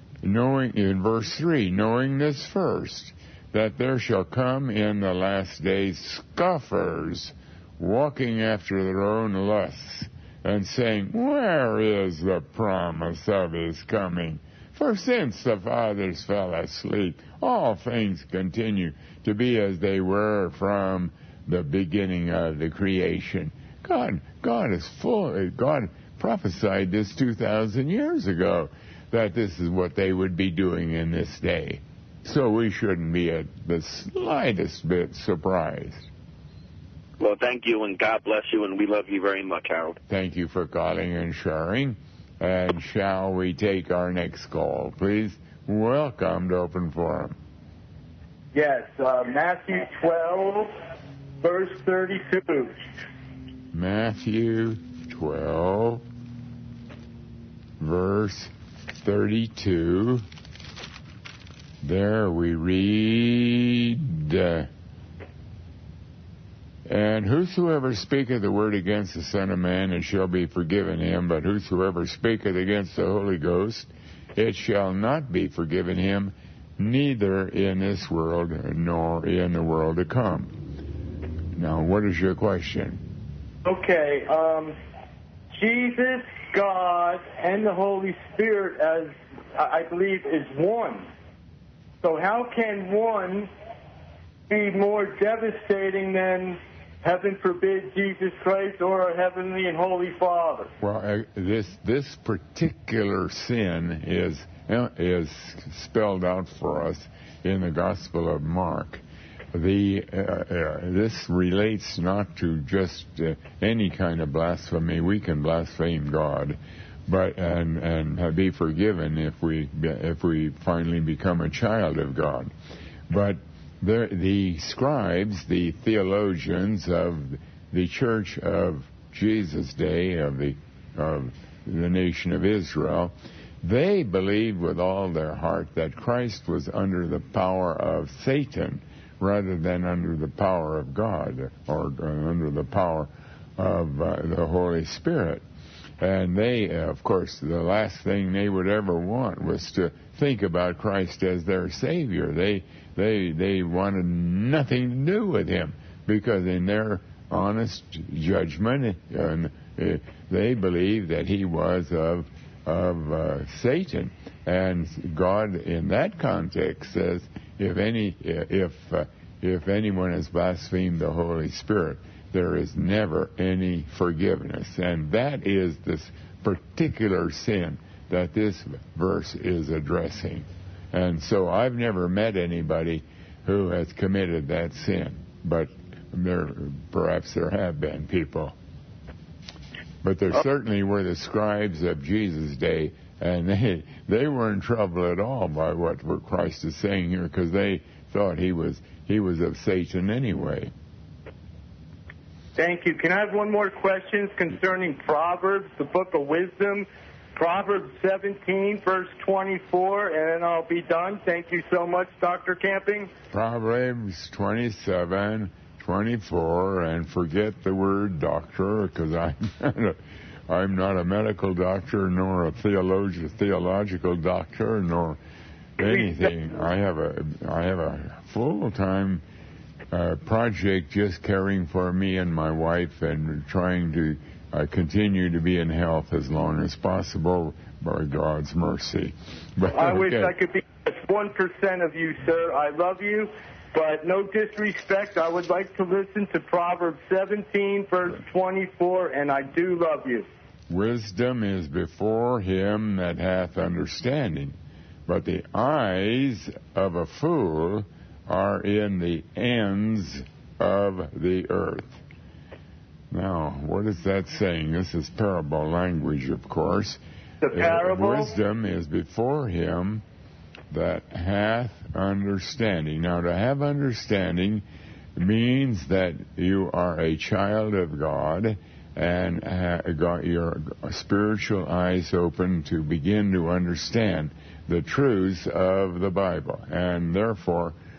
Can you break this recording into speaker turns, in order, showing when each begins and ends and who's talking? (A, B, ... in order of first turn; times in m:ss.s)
0:00.2-0:36.1 A
0:37.2-0:40.0 B
0:40.1-0:47.4 A
0:48.5-0:50.7 C
0:51.4-0:52.8 C
0:53.7-0:56.0 A
0:57.8-1:00.2 A
1:01.8-1:04.7 A
1:06.9-1:20.5 A
1:21.5-1:23.0 A
1:23.6-1:24.8 C
1:25.5-1:31.1 C
1:32.0-1:33.5 C
1:34.5-1:40.7 C
1:40.8-1:49.0 A
1:49.5-2:02.5 A
2:03.1-2:25.4 A
2:26.0-3:08.5 A
3:10.0-3:20.7 A
3:22.6-3:33.1 C
3:33.3-3:40.0 A
3:40.5-3:45.2 A
3:45.8-3:49.2 A
3:45.8-3:46.3 C
3:49.9-4:00.3 A
3:59.7-4:10.3 C
4:10.7-4:14.5 A
4:15.1-4:22.0 A
4:23.1-4:27.0 A
4:27.4-4:28.3 C
4:27.5-4:30.0 A
4:30.7-4:34.6 A
4:35.2-4:47.7 A